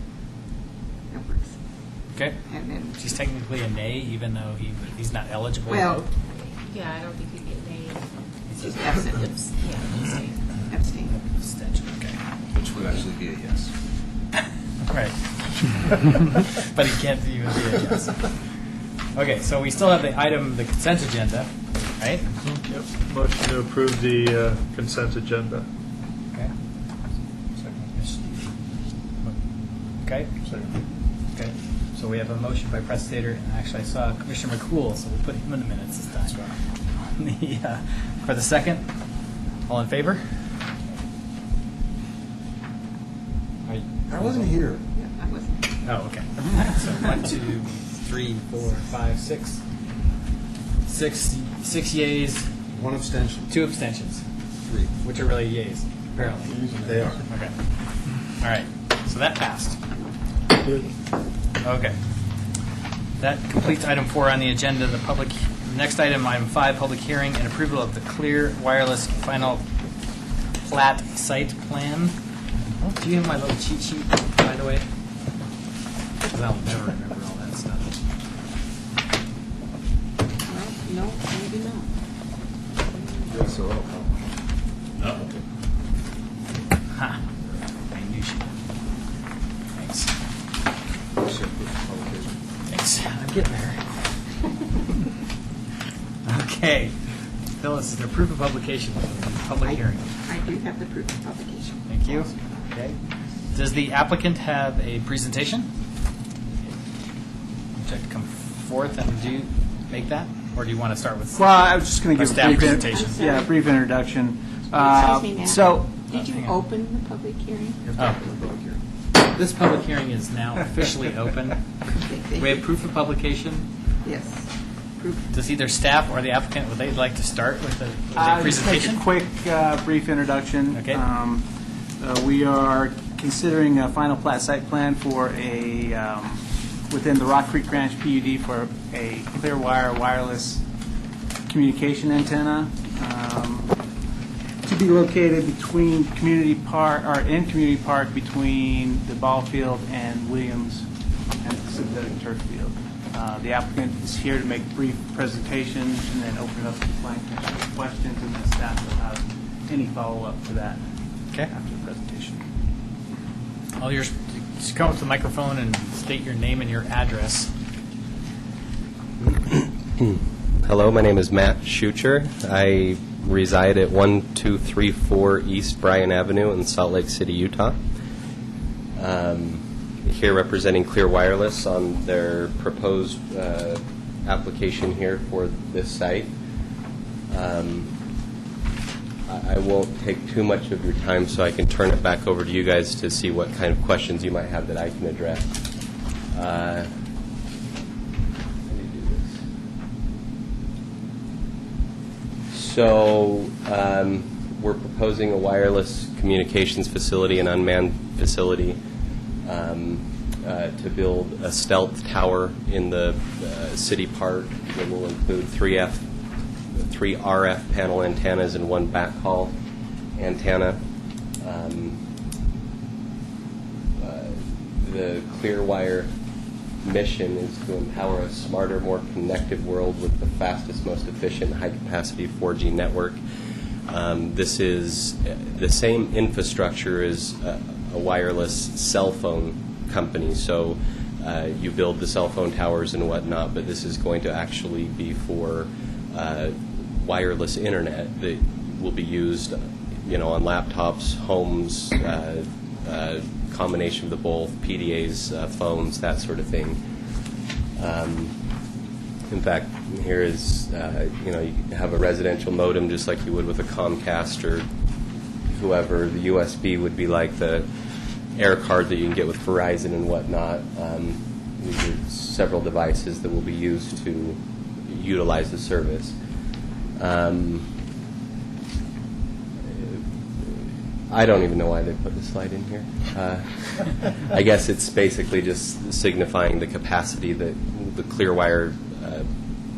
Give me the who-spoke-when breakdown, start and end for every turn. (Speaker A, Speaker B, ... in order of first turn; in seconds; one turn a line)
Speaker A: 1.1-1.5
Speaker B: 2.1-2.4
Speaker A: 2.5-3.0
Speaker B: 2.9-6.1
Speaker A: 5.7-6.0
Speaker C: 6.7-8.1
Speaker B: 8.5-9.2
Speaker A: 8.6-9.3
Speaker C: 9.2-10.3
Speaker A: 10.7-11.1
Speaker B: 11.1-12.2
Speaker D: 12.5-13.7
Speaker B: 14.9-18.4
Speaker B: 19.2-22.2
Speaker E: 22.7-25.7
Speaker E: 27.6-27.9
Speaker B: 27.9-28.5
Speaker B: 30.1-30.3
Speaker E: 30.4-30.7
Speaker B: 31.4-38.9
Speaker B: 39.7-40.2
Speaker B: 43.7-44.6
Speaker D: 44.1-44.8
Speaker A: 44.9-45.7
Speaker B: 45.8-49.6
Speaker B: 50.9-52.5
Speaker D: 52.7-53.5
Speaker B: 53.5-54.2
Speaker B: 55.0-56.6
Speaker D: 56.5-57.2
Speaker B: 57.3-57.5
Speaker B: 58.4-59.8
Speaker B: 61.6-62.0
Speaker B: 63.2-69.6
Speaker B: 70.6-72.2
Speaker B: 72.8-74.9
Speaker B: 76.3-78.0
Speaker A: 80.5-81.9
Speaker A: 83.0-83.3
Speaker D: 83.3-84.1
Speaker D: 85.0-85.4
Speaker B: 86.9-87.2
Speaker B: 87.9-88.5
Speaker B: 89.8-90.1
Speaker D: 91.2-92.4
Speaker B: 92.7-93.8
Speaker B: 96.2-97.0
Speaker B: 97.6-100.0
Speaker A: 99.6-102.2
Speaker B: 101.9-103.0
Speaker B: 103.5-105.7
Speaker B: 107.8-113.2
Speaker F: 111.3-116.0
Speaker A: 112.4-113.5
Speaker A: 114.8-118.0
Speaker B: 116.2-116.6
Speaker D: 118.0-118.7
Speaker B: 119.2-121.6
Speaker A: 121.9-122.7
Speaker B: 122.4-123.7
Speaker A: 124.0-125.3
Speaker B: 125.3-129.1
Speaker F: 128.2-140.7
Speaker B: 130.7-131.0
Speaker F: 141.5-143.8
Speaker F: 144.6-150.9
Speaker F: 151.4-160.9
Speaker F: 161.5-162.5
Speaker B: 163.8-167.5
Speaker G: 169.2-177.8
Speaker G: 179.0-186.3
Speaker G: 187.3-187.9
Speaker G: 189.3-195.5
Speaker G: 196.3-196.9
Speaker G: 198.7-199.4
Speaker G: 202.5-208.8
Speaker G: 209.4-216.1
Speaker G: 216.7-219.5
Speaker G: 220.2-220.8
Speaker G: 221.4-222.0
Speaker G: 224.0-226.1
Speaker G: 226.8-233.2
Speaker G: 233.9-256.8
Speaker G: 257.8-258.3
Speaker G: 259.3-264.7
Speaker G: 265.5-267.7
Speaker G: 268.4-276.2
Speaker G: 277.0-277.7
Speaker G: 279.7-289.3